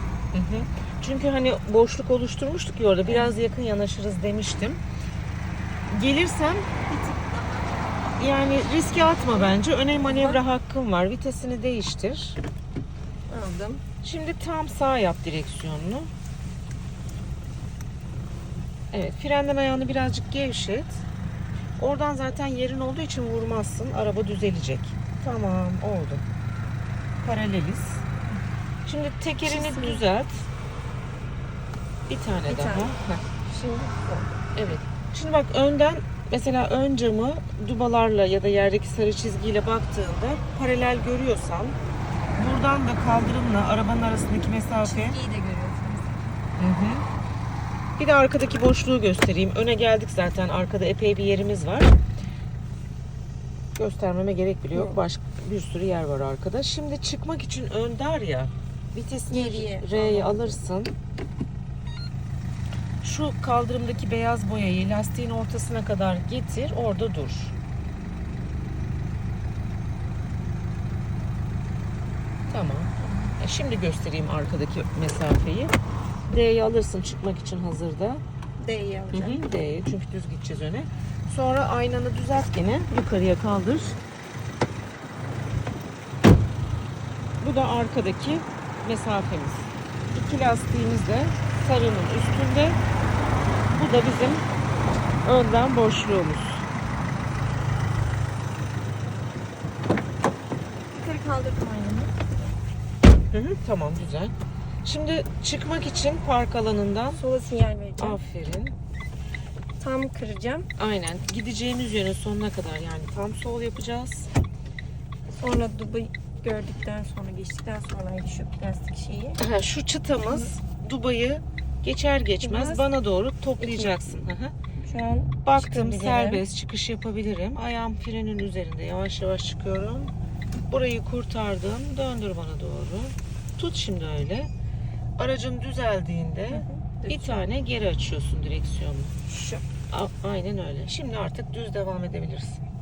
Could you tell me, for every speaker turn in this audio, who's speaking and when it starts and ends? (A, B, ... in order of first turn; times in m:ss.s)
0:00.3-0:04.8 A
0:03.1-0:03.4 B
0:05.9-0:06.7 A
0:06.9-0:08.2 B
0:08.2-0:12.4 A
0:10.0-0:10.4 B
0:13.3-0:13.8 B
0:14.0-0:16.1 A
0:18.9-0:21.0 A
0:21.8-0:26.2 A
0:27.2-0:28.0 A
0:28.8-0:30.4 A
0:29.4-0:30.0 B
0:32.1-0:33.2 A
0:32.5-0:32.9 B
0:33.4-0:34.5 B
0:34.5-0:41.8 A
0:42.4-0:45.2 A
0:44.8-0:46.4 B
0:46.6-0:47.1 A
0:48.0-0:51.9 A
0:53.8-1:00.9 A
0:54.7-0:55.0 B
0:59.3-1:00.6 B
1:03.0-1:07.5 A
1:12.5-1:15.8 A
1:13.0-1:13.3 B
1:16.2-1:18.2 A
1:18.6-1:19.4 B
1:19.1-1:24.0 A
1:27.4-1:32.8 A
1:33.7-1:34.5 A
1:35.2-1:36.7 A
1:40.9-1:42.5 B
1:43.3-1:47.2 A
1:47.2-1:48.2 B
1:48.0-1:48.7 A
1:49.8-1:50.7 B
1:50.8-1:54.3 A
1:55.4-1:59.4 B
1:59.4-2:04.5 A
2:02.4-2:02.8 B
2:03.6-2:04.0 B
2:04.8-2:06.4 B
2:05.4-2:10.1 A
2:10.7-2:14.5 A
2:15.2-2:19.2 A
2:16.5-2:17.4 B
2:19.3-2:19.6 B
2:19.9-2:22.7 A